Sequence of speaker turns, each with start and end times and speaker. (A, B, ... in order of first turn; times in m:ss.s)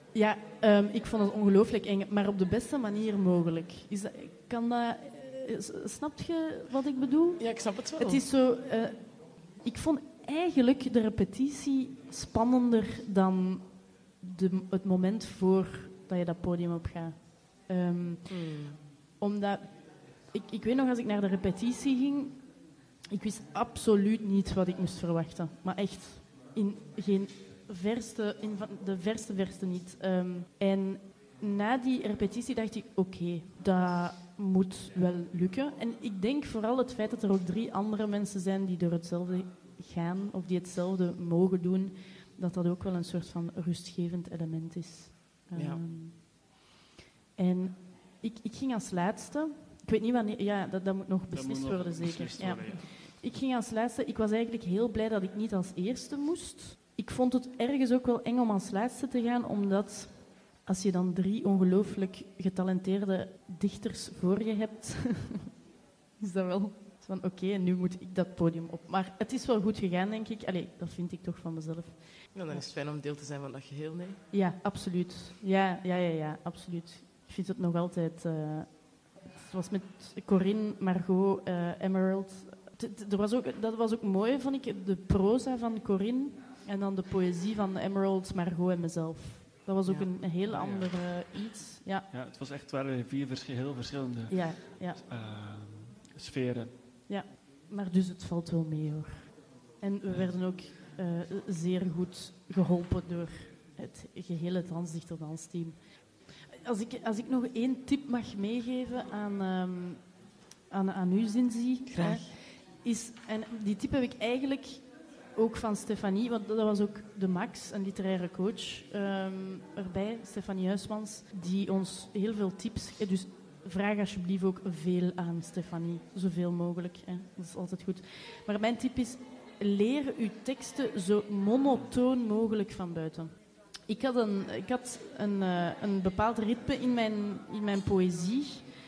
0:00.1-0:22.5 A
0:07.4-0:08.2 B
0:18.3-0:18.8 B
0:23.1-0:46.3 A
0:45.5-0:45.8 B
0:47.4-1:05.4 A
0:51.3-0:53.2 C
1:06.2-1:12.7 A
1:12.3-1:14.2 B
1:14.3-1:32.1 A
1:30.4-1:31.2 C
1:32.1-1:36.8 C
1:34.3-1:35.0 A
1:37.1-2:18.7 A
1:51.9-1:52.3 B